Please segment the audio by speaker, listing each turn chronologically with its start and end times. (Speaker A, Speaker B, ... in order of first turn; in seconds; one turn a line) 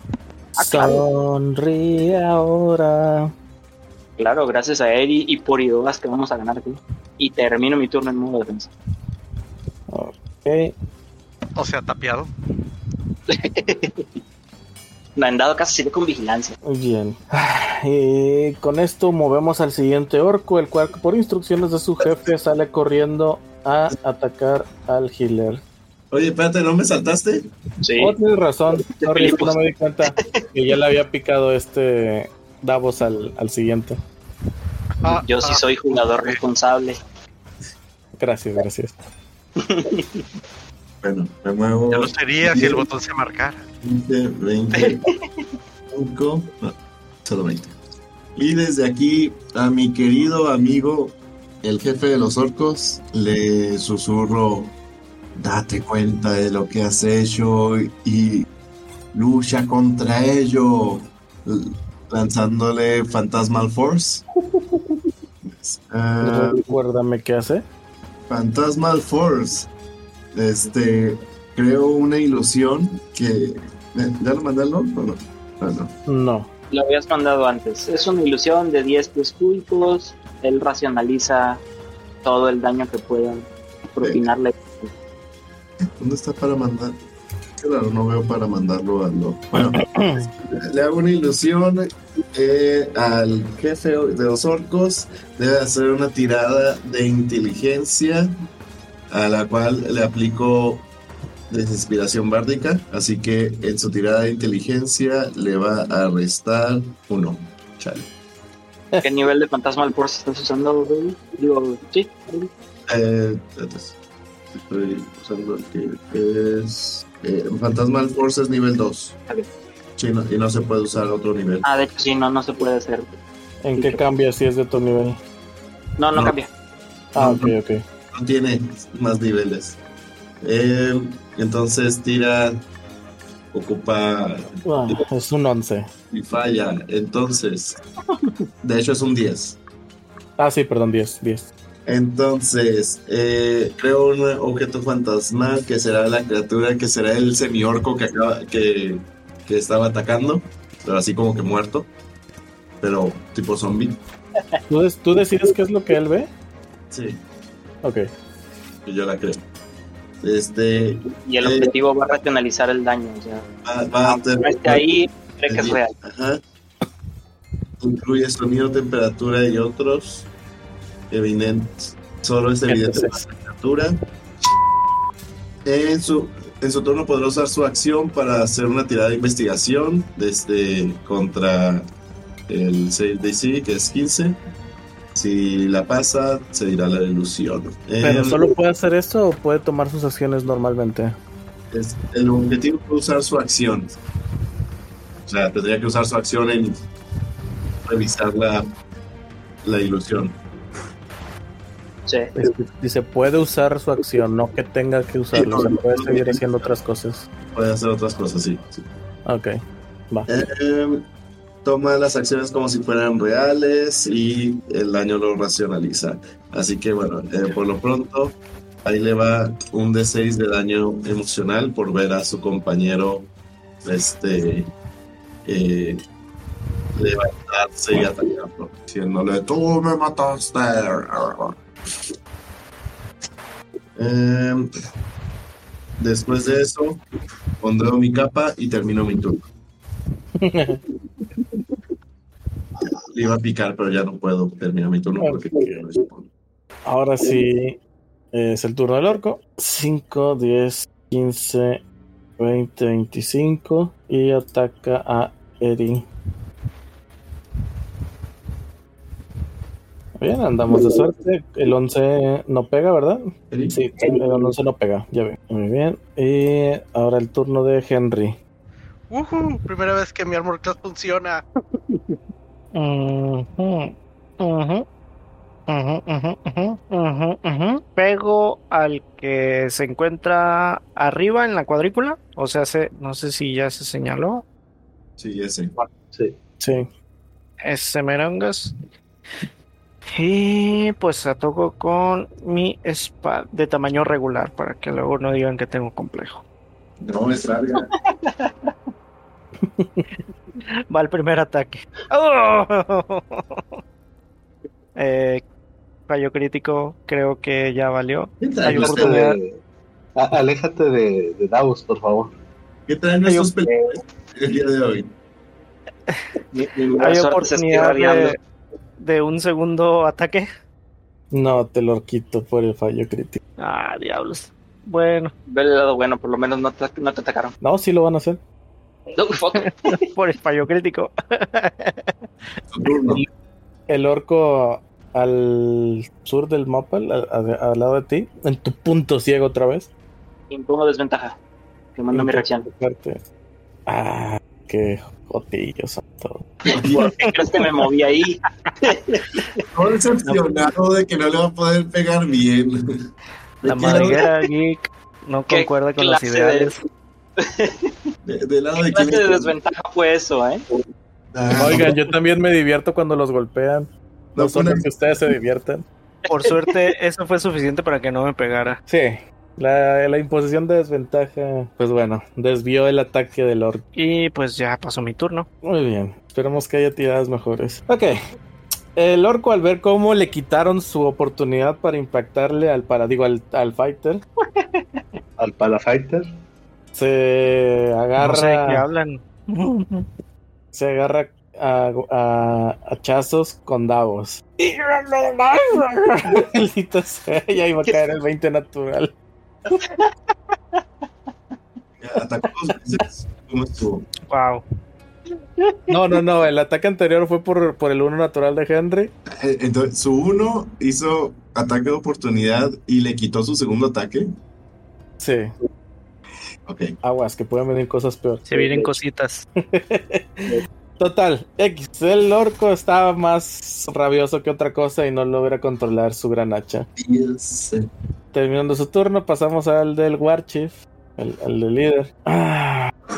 Speaker A: 0.5-3.3
Speaker B: 0.6-1.0
Speaker B: 4.2-8.7
Speaker A: 9.9-10.7
Speaker C: 11.6-12.3
Speaker B: 13.3-14.1
Speaker B: 15.2-16.6
Speaker A: 16.6-25.6
Speaker D: 26.1-27.5
Speaker B: 27.8-28.1
Speaker A: 28.0-34.0
Speaker B: 29.0-29.5
Speaker B: 30.1-30.4
Speaker C: 35.0-36.4
Speaker B: 35.0-37.0
Speaker A: 38.2-39.0
Speaker B: 39.6-40.2
Speaker D: 41.0-42.9
Speaker C: 41.9-43.6
Speaker D: 43.8-45.1
Speaker D: 45.9-46.7
Speaker D: 47.2-47.8
Speaker D: 48.4-54.7
Speaker D: 55.3-58.5
Speaker D: 59.1-64.2
Speaker D: 65.5-66.6
Speaker A: 66.2-67.6
Speaker D: 68.3-69.7
Speaker D: 70.3-75.9
Speaker A: 76.1-76.5
Speaker B: 76.7-81.6
Speaker B: 82.2-84.9
Speaker D: 86.0-87.0
Speaker D: 87.6-98.3
Speaker A: 89.8-90.3
Speaker D: 99.1-100.8
Speaker D: 101.5-108.1
Speaker B: 109.0-112.5
Speaker D: 112.9-113.9
Speaker D: 114.5-119.2
Speaker D: 120.0-121.6
Speaker B: 121.6-123.1
Speaker A: 123.6-125.2
Speaker B: 123.8-124.0
Speaker B: 126.0-126.5
Speaker D: 127.1-127.5
Speaker A: 127.1-127.8
Speaker D: 128.1-129.8
Speaker D: 130.4-132.6
Speaker D: 133.5-135.0
Speaker A: 134.6-135.9
Speaker D: 136.1-137.8
Speaker D: 138.6-139.6
Speaker A: 140.4-141.5
Speaker D: 141.8-151.9
Speaker D: 152.8-154.0
Speaker A: 154.7-156.3
Speaker D: 156.9-157.2
Speaker D: 158.8-159.4
Speaker D: 160.2-161.7
Speaker B: 161.2-163.4
Speaker D: 163.6-164.9
Speaker B: 164.0-165.9
Speaker D: 165.5-166.4
Speaker D: 167.8-170.3
Speaker D: 171.1-174.0
Speaker A: 172.7-173.2
Speaker D: 175.6-181.8
Speaker D: 182.5-184.4
Speaker D: 185.1-188.5
Speaker A: 188.0-191.2
Speaker D: 191.7-194.0
Speaker D: 195.2-196.8
Speaker D: 197.8-198.7
Speaker D: 199.6-200.4
Speaker B: 202.1-202.3
Speaker A: 202.3-207.2
Speaker D: 205.3-206.7
Speaker D: 207.5-208.8
Speaker A: 209.2-209.6
Speaker D: 210.3-211.1
Speaker D: 211.6-223.3
Speaker D: 223.8-224.7
Speaker D: 225.4-226.0
Speaker D: 226.9-231.5
Speaker D: 233.9-234.7
Speaker D: 236.0-237.0
Speaker D: 237.6-239.4
Speaker A: 240.4-240.8
Speaker D: 243.0-246.3
Speaker A: 245.2-245.7
Speaker A: 246.8-247.8
Speaker A: 248.3-251.8
Speaker A: 252.4-256.1
Speaker A: 260.2-268.4
Speaker D: 263.5-263.8
Speaker C: 269.1-271.4
Speaker E: 272.7-274.9
Speaker E: 275.7-284.4
Speaker D: 285.2-285.7
Speaker A: 286.6-286.9
Speaker E: 287.6-288.7
Speaker E: 290.1-296.4
Speaker D: 297.0-297.9
Speaker B: 298.1-298.5
Speaker A: 299.6-300.1
Speaker E: 300.9-303.8
Speaker E: 304.9-305.4
Speaker E: 306.1-309.4
Speaker D: 308.4-309.2
Speaker F: 308.6-309.6
Speaker F: 310.1-312.3
Speaker D: 312.9-315.1
Speaker E: 313.2-313.7
Speaker B: 316.5-318.4
Speaker E: 317.0-318.4
Speaker E: 319.0-320.5
Speaker A: 321.3-323.4
Speaker E: 323.6-325.3
Speaker B: 325.5-327.5
Speaker A: 327.6-328.4
Speaker B: 329.1-330.0
Speaker E: 329.6-332.1
Speaker D: 332.7-333.2
Speaker A: 333.9-339.9
Speaker B: 340.5-341.4
Speaker B: 341.9-342.7
Speaker A: 342.1-343.2
Speaker A: 343.9-346.4
Speaker B: 346.7-349.6
Speaker D: 346.7-347.1
Speaker D: 349.7-352.8
Speaker D: 353.6-354.2
Speaker E: 353.6-356.8
Speaker B: 353.9-354.2
Speaker B: 355.5-356.7
Speaker B: 357.4-357.9
Speaker D: 358.2-359.5
Speaker B: 358.8-360.6
Speaker D: 361.3-361.9
Speaker A: 361.5-365.8
Speaker D: 364.3-364.8
Speaker B: 366.2-366.8
Speaker E: 366.3-368.8
Speaker A: 368.9-373.8
Speaker E: 373.9-375.5
Speaker A: 375.6-378.2
Speaker A: 378.9-384.2
Speaker F: 385.4-386.2
Speaker A: 386.9-388.8
Speaker E: 388.2-390.1
Speaker A: 390.7-399.1
Speaker B: 399.8-400.1
Speaker D: 402.0-404.1
Speaker E: 404.3-404.6
Speaker A: 405.9-409.1
Speaker D: 409.3-414.3
Speaker A: 415.2-415.5
Speaker D: 416.6-416.9
Speaker A: 417.0-418.5
Speaker E: 418.5-419.4
Speaker B: 418.6-418.9
Speaker A: 419.7-426.9
Speaker D: 427.0-427.9
Speaker A: 428.3-432.9